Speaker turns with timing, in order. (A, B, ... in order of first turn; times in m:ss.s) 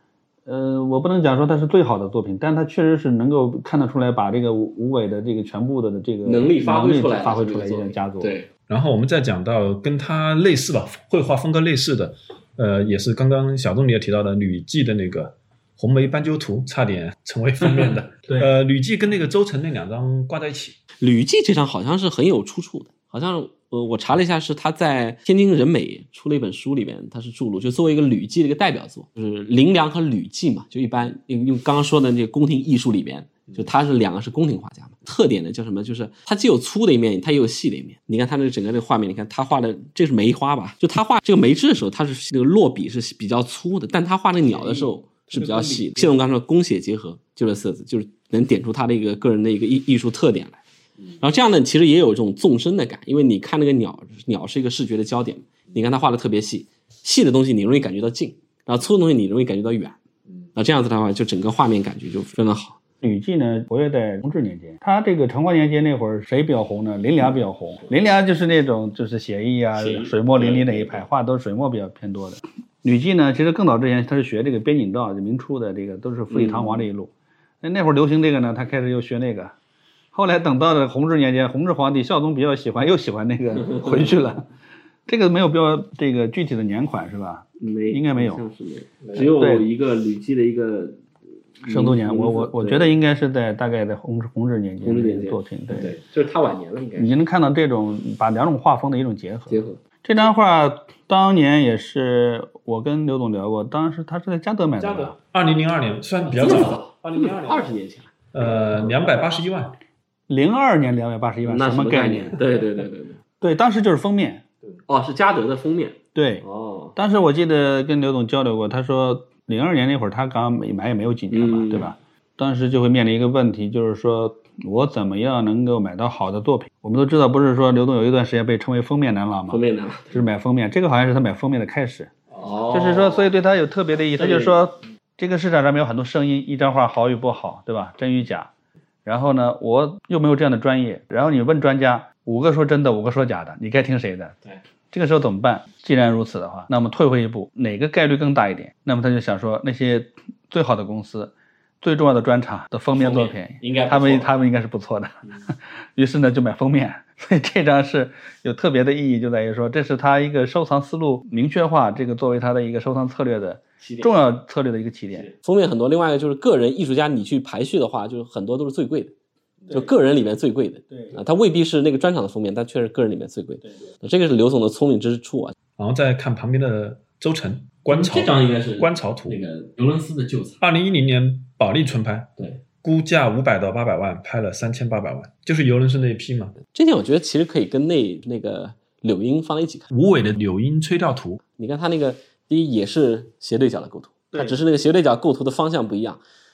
0:00.5-0:08.4 A
0:06.2-0:08.5 B
0:08.7-0:20.8 C
0:21.0-0:50.6 B
0:44.4-0:46.1 A
0:51.2-1:00.0 B
1:00.6-1:02.8 B
1:03.0-1:17.1 A
1:09.8-1:11.0 B
1:16.3-1:16.9 B
1:17.6-1:19.5 A
1:20.1-1:24.5 A
1:23.7-1:24.1 B
1:25.1-1:28.4 A
1:27.6-1:31.0 B
1:29.2-1:29.7 A
1:31.6-1:32.9 B
1:31.7-1:36.0 A
1:34.8-1:37.1 B
1:37.0-1:45.2 A
1:39.5-1:39.8 B
1:44.8-1:47.7 C
1:46.3-1:48.1 B
1:48.3-1:49.8 C
1:50.3-1:52.4 A
1:51.5-1:53.2 B
1:53.4-1:54.4 A
1:54.9-1:57.0 B
1:56.2-1:56.4 A
1:57.0-2:12.1 A
2:01.3-2:01.9 B
2:09.5-2:10.3 B
2:12.3-2:13.3 B
2:12.7-2:18.5 A
2:14.2-2:14.6 B
2:19.0-2:24.4 A
2:24.9-2:35.2 A
2:32.9-2:34.3 B
2:36.0-2:45.3 A
2:43.8-2:44.1 B
2:45.2-2:49.1 B
2:49.7-2:55.5 B
2:50.9-2:51.2 A
2:55.8-2:59.4 C
2:57.9-3:00.6 B
3:00.6-3:06.6 C
3:06.7-3:09.9 B
3:09.9-3:11.4 C
3:11.6-3:16.2 B
3:14.3-3:14.6 A